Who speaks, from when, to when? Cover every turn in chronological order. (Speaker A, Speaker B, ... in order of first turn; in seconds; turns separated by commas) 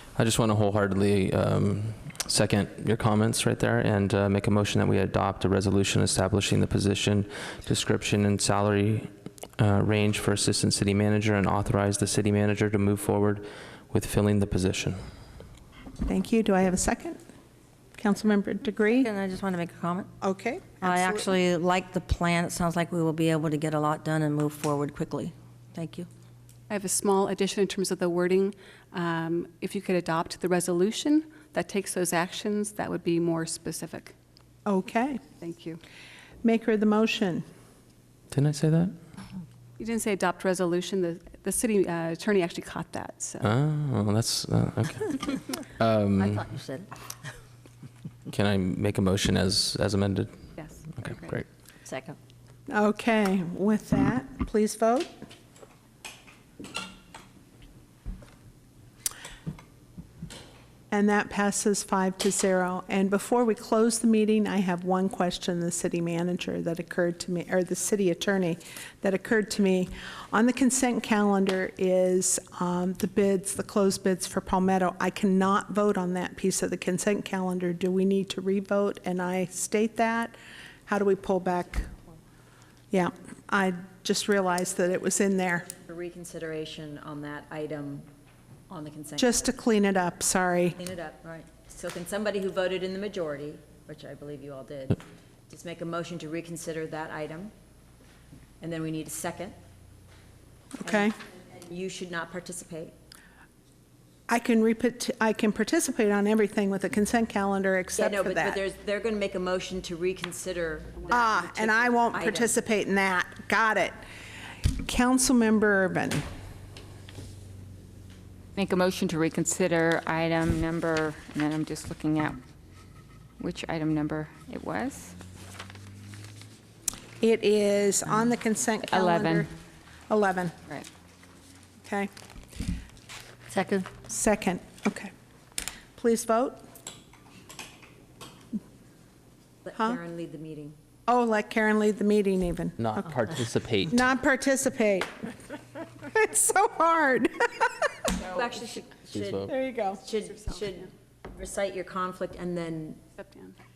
Speaker A: 0.2-15.0, Speaker B: 16.1-17.2, Speaker B: 18.0-19.1, Speaker C: 18.8-20.1, Speaker B: 20.2-21.3, Speaker C: 20.8-26.1, Speaker D: 26.7-34.1, Speaker B: 34.7-35.2, Speaker D: 35.4-35.8, Speaker B: 36.4-37.5, Speaker A: 38.3-39.0, Speaker D: 39.8-43.5, Speaker A: 43.4-46.5, Speaker C: 46.2-46.9, Speaker A: 48.3-50.4, Speaker D: 50.6-50.8, Speaker A: 50.9-51.5, Speaker C: 51.8-52.2, Speaker B: 52.7-55.1, Speaker B: 60.9-80.3, Speaker B: 80.9-81.9, Speaker B: 82.9-85.7, Speaker E: 85.7-88.1, Speaker E: 88.7-89.6, Speaker B: 89.2-90.8, Speaker E: 90.8-97.5, Speaker E: 98.6-99.5, Speaker B: 100.8-101.2, Speaker E: 100.8-102.9, Speaker B: 104.3-108.6, Speaker E: 108.0-112.5, Speaker B: 111.1-114.0, Speaker B: 114.7-116.2, Speaker F: 118.6-122.4, Speaker F: 123.4-125.1, Speaker B: 127.2-129.5, Speaker F: 128.9-129.5, Speaker B: 130.1-130.6, Speaker B: 131.8-132.1, Speaker C: 133.5-133.9, Speaker B: 134.1-135.1, Speaker B: 136.0-136.6, Speaker E: 139.7-140.8, Speaker B: 141.1-143.2, Speaker A: 142.8-144.0, Speaker B: 143.9-145.3, Speaker B: 146.0-147.7, Speaker E: 148.2-153.0, Speaker A: 149.1-149.5, Speaker B: 149.5-150.0, Speaker D: 150.2-150.8, Speaker D: 153.2-153.6